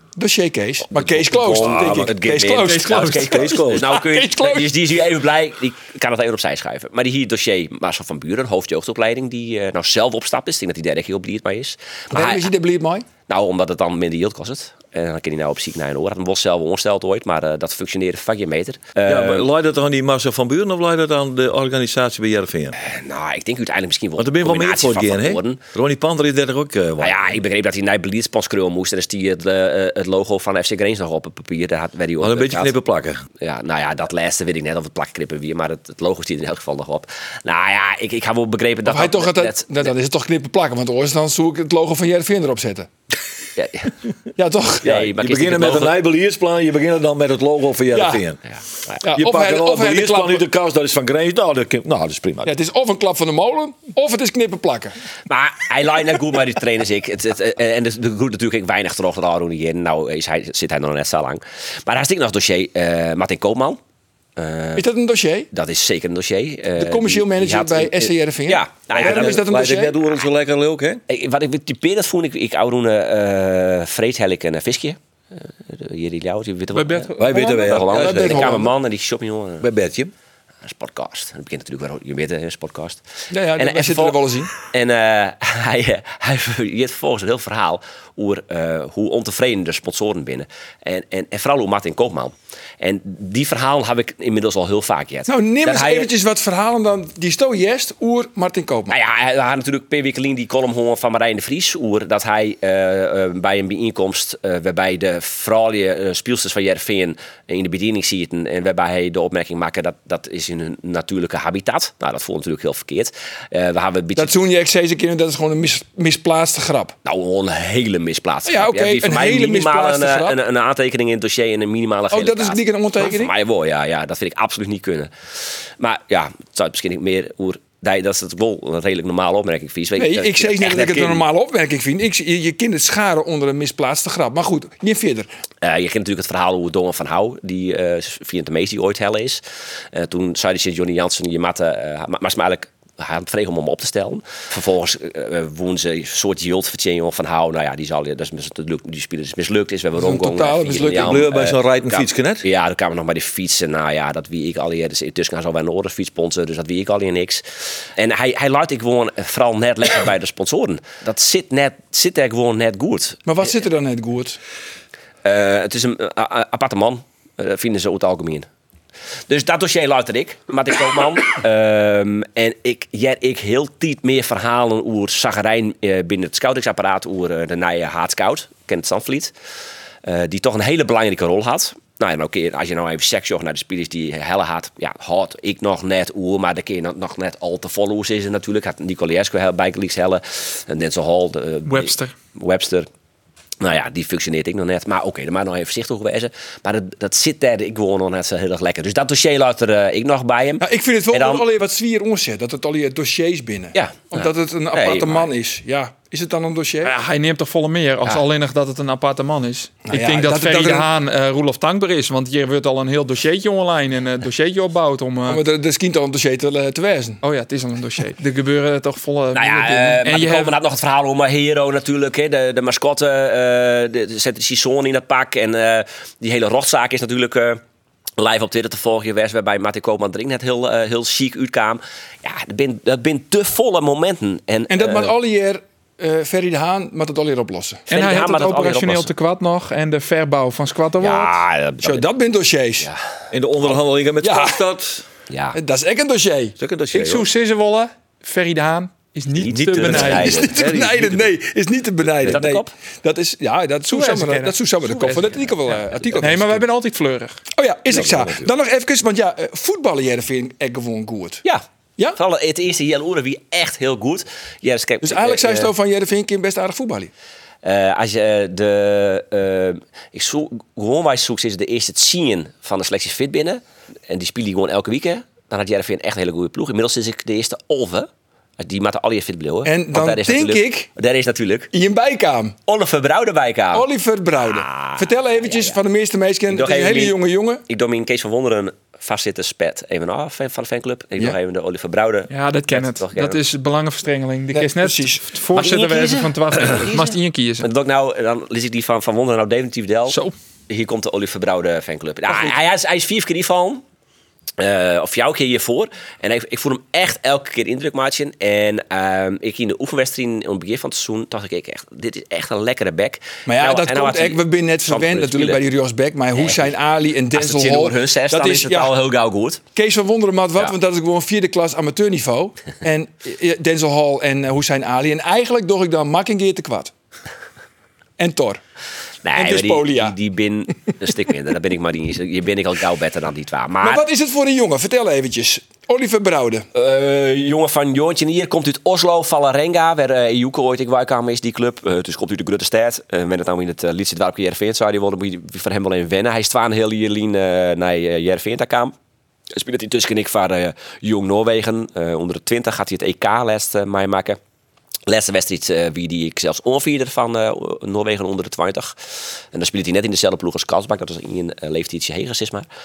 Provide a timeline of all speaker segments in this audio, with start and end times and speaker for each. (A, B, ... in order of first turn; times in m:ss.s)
0:00.2-0:04.7 A
0:00.9-0:12.5 B
0:01.6-0:02.1 C
0:03.0-0:03.9 C
0:12.1-0:13.0 A
0:13.3-0:19.5 B
0:19.0-0:22.8 C
0:22.8-0:25.6 B
0:24.2-0:27.4 C
0:27.0-0:32.7 B
0:32.2-0:33.2 C
0:33.4-0:39.9 B
0:38.8-0:42.9 A
0:43.6-0:43.9 B
0:44.4-0:44.9 A
0:44.8-0:46.0 B
0:44.8-0:48.4 C
0:47.9-0:48.2 A
0:49.0-0:50.4 A
0:49.0-0:52.5 C
0:52.4-0:54.9 A
0:55.3-1:03.8 B
1:04.4-1:04.9 B
1:04.8-1:05.5 A
1:05.5-1:09.5 B
1:06.8-1:10.0 A
1:08.9-1:11.0 C
1:11.1-1:19.7 B
1:16.7-1:17.7 D
1:17.2-1:18.7 C
1:17.7-1:18.7 A
1:19.6-1:20.1 C
1:20.6-1:23.0 B
1:23.3-1:24.5 A
1:23.6-1:36.1 B
1:35.3-1:38.9 A
1:38.9-1:54.3 B
1:54.2-1:56.9 A
1:57.0-2:05.1 B
1:58.5-2:00.4 A
2:02.1-2:03.3 A
2:05.8-2:11.2 B
2:10.0-2:15.3 A
2:15.6-2:43.2 B
2:30.0-2:31.0 A
2:30.8-2:32.4 C
2:43.2-2:44.4 A
2:45.2-2:48.5 B
2:49.3-2:59.3 B
3:00.0-3:12.9 B
3:11.6-3:12.1 D
3:13.6-3:21.5 B
3:20.6-3:26.9 A
3:23.7-3:25.3 B
3:26.8-3:35.4 D
3:29.9-3:30.9 A
3:35.3-3:37.2 A
3:37.2-3:40.6 D
3:39.3-3:47.6 B
3:48.2-3:55.1 B
3:54.7-3:57.9 A
3:57.9-4:01.3 D
3:57.9-3:59.1 B
4:01.0-4:02.1 B
4:01.8-4:02.9 A
4:03.3-4:05.0 C
4:04.2-4:04.6 A
4:05.3-4:05.6 B
4:05.5-4:06.6 A
4:06.6-4:07.3 C
4:06.9-4:10.3 D
4:09.3-4:10.6 B
4:09.5-4:11.4 C
4:10.1-4:16.6 A
4:12.2-4:12.7 B
4:13.9-4:15.3 D
4:16.2-4:17.4 D
4:17.5-4:21.4 A
4:17.9-4:18.5 C
4:22.1-4:25.7 B
4:25.0-4:27.1 A
4:27.6-4:41.7 B
4:39.6-4:40.9 A
4:41.7-4:42.6 A
4:42.7-4:43.9 B
4:43.7-4:47.6 A
4:44.4-4:45.8 B
4:46.5-4:53.4 B
4:52.3-4:57.7 D
4:54.5-4:55.2 A
4:55.5-5:00.2 B
5:00.7-5:03.8 B
5:04.6-5:15.6 B
5:13.5-5:19.0 A
5:16.3-5:16.7 B
5:17.3-5:19.6 B
5:19.8-5:26.9 A
5:28.2-5:28.6 A
5:29.2-5:34.0 B
5:29.3-5:30.2 A
5:33.8-5:36.6 A
5:36.7-5:48.9 B
5:49.5-5:54.4 B
5:55.1-5:58.9 B
5:59.5-6:02.6 B